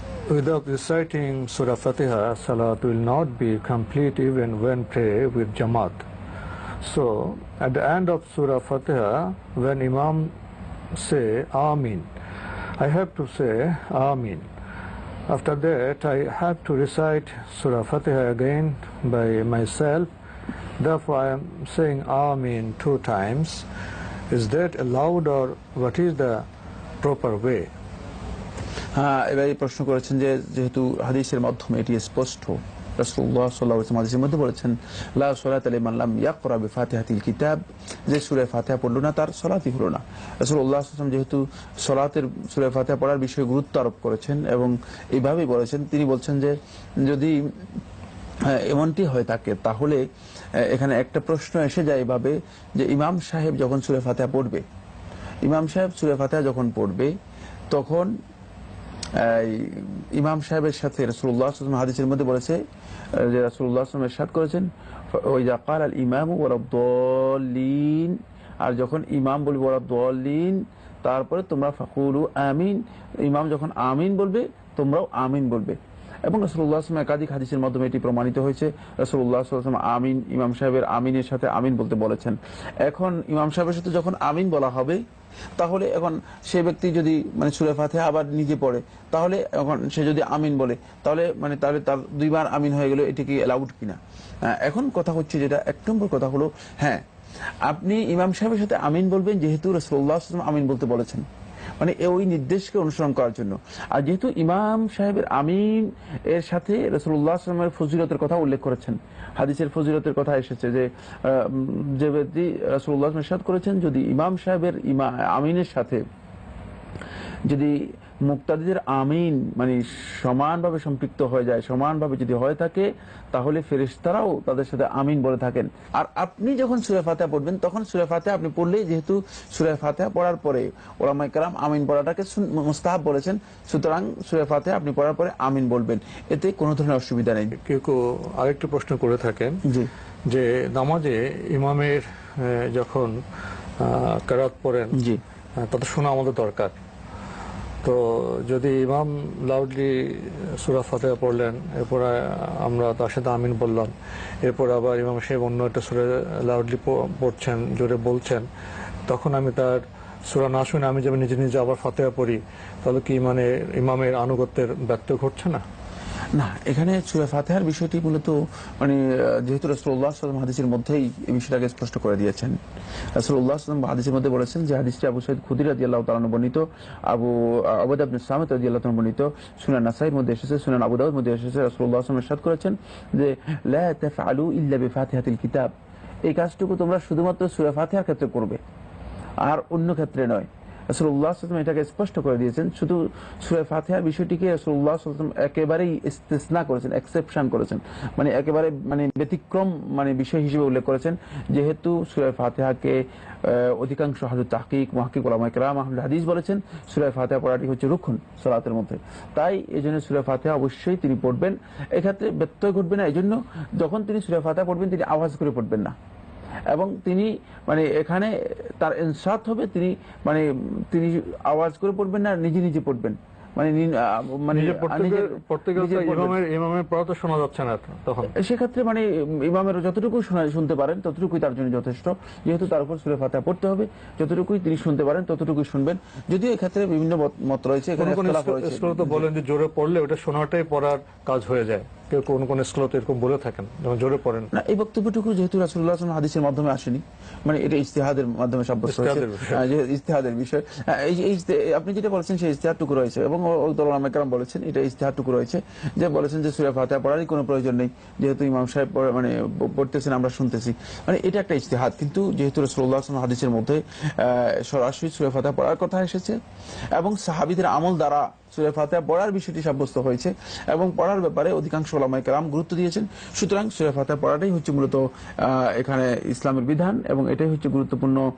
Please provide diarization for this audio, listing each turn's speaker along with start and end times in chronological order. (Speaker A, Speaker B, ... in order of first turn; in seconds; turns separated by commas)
Speaker A: 0.3-6.0, Speaker A: 6.8-10.3, Speaker A: 10.9-12.1, Speaker A: 12.8-14.4, Speaker A: 15.3-20.1, Speaker A: 20.8-23.6, Speaker A: 24.3-26.4, Speaker A: 27.0-27.7, Speaker B: 28.9-47.3, Speaker B: 48.5-50.0, Speaker B: 50.6-54.6, Speaker B: 55.4-57.1, Speaker B: 57.7-58.1, Speaker B: 59.2-62.6, Speaker B: 63.2-85.0, Speaker B: 85.6-97.0, Speaker B: 97.7-101.2, Speaker B: 101.8-116.0, Speaker B: 117.5-137.5, Speaker A: 137.6-139.6, Speaker A: 140.3-143.1, Speaker A: 143.8-144.9, Speaker B: 144.9-145.2, Speaker A: 145.6-146.8, Speaker A: 147.8-158.4, Speaker A: 159.1-165.6, Speaker B: 166.3-172.6, Speaker B: 173.1-185.7, Speaker B: 186.3-188.6, Speaker B: 189.4-215.9, Speaker B: 216.7-226.4, Speaker A: 224.5-228.3, Speaker B: 228.4-239.3, Speaker A: 238.0-244.5, Speaker B: 244.5-266.4, Speaker A: 248.9-249.6, Speaker B: 266.9-278.2